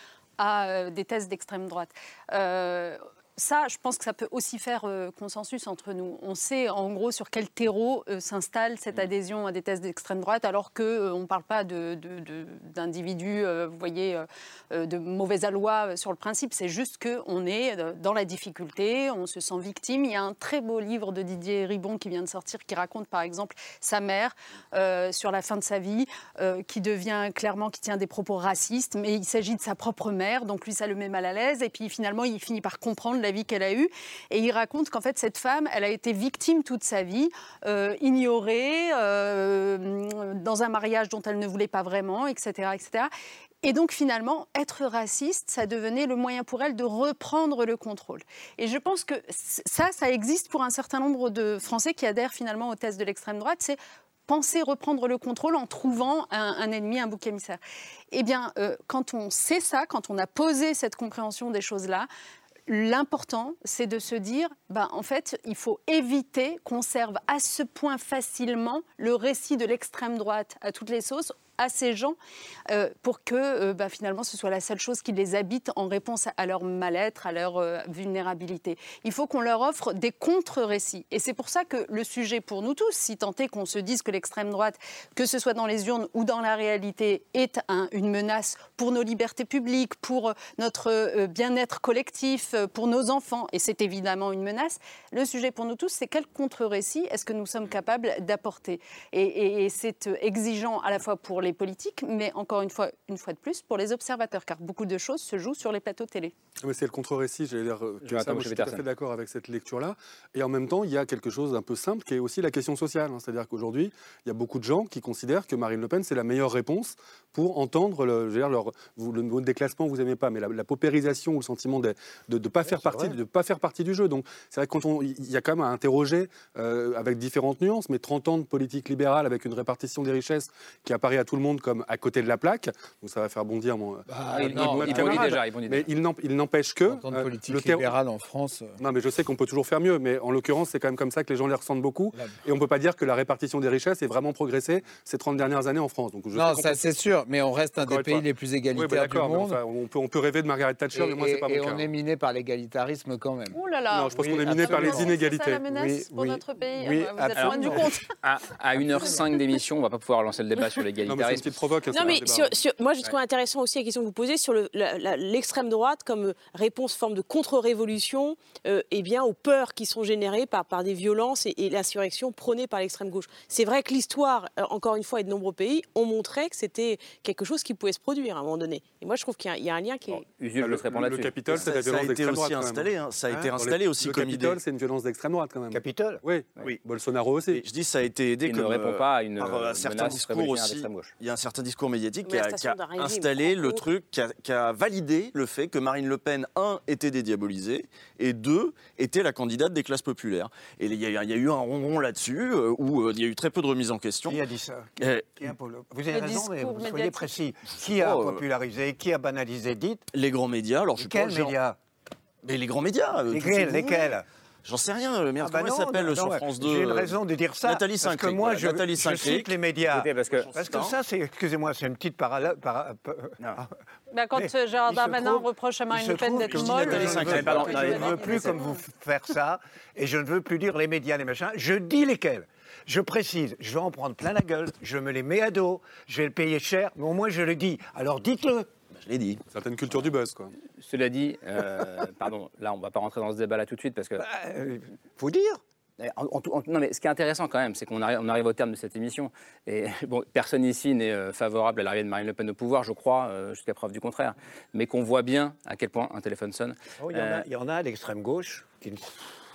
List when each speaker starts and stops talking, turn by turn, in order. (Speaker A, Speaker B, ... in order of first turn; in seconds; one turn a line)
Speaker A: 0.4-43.1
Speaker A: 43.6-53.8
Speaker A: 54.3-57.6
Speaker A: 58.1-62.1
Speaker A: 62.7-72.2
Speaker A: 72.7-106.3
Speaker B: 106.6-137.9
Speaker C: 108.0-108.8
Speaker D: 122.6-123.2
Speaker E: 134.1-135.3
Speaker C: 134.3-135.9
Speaker E: 136.9-138.8
Speaker B: 138.8-146.8
Speaker E: 146.3-149.6
Speaker B: 147.8-151.9
Speaker E: 150.9-153.6
Speaker A: 153.5-158.1
Speaker B: 153.9-155.6
Speaker E: 154.1-158.0
Speaker C: 157.3-161.4
Speaker B: 161.0-162.5
Speaker F: 161.9-180.2
Speaker C: 180.3-181.6
Speaker B: 180.6-182.9
Speaker G: 181.6-184.6
Speaker B: 183.6-187.6
Speaker D: 185.7-186.2
Speaker G: 187.5-204.4
Speaker C: 188.4-191.1
Speaker F: 192.2-193.8
Speaker D: 204.3-210.0
Speaker G: 205.0-205.5
Speaker A: 206.1-207.3
Speaker G: 207.9-208.4
Speaker G: 210.1-211.5
Speaker D: 211.0-211.8
Speaker G: 212.4-214.1
Speaker D: 213.3-214.2
Speaker G: 214.6-219.6
Speaker D: 215.4-223.7
Speaker C: 219.9-220.5
Speaker G: 220.3-220.9
Speaker C: 223.4-223.6
Speaker A: 224.1-228.8
Speaker D: 224.3-238.7
Speaker G: 226.4-228.2
Speaker C: 227.2-228.6
Speaker G: 238.9-239.4
Speaker B: 239.5-240.5
Speaker C: 240.8-244.3
Speaker D: 244.2-245.6
Speaker C: 246.0-257.4
Speaker D: 257.0-259.1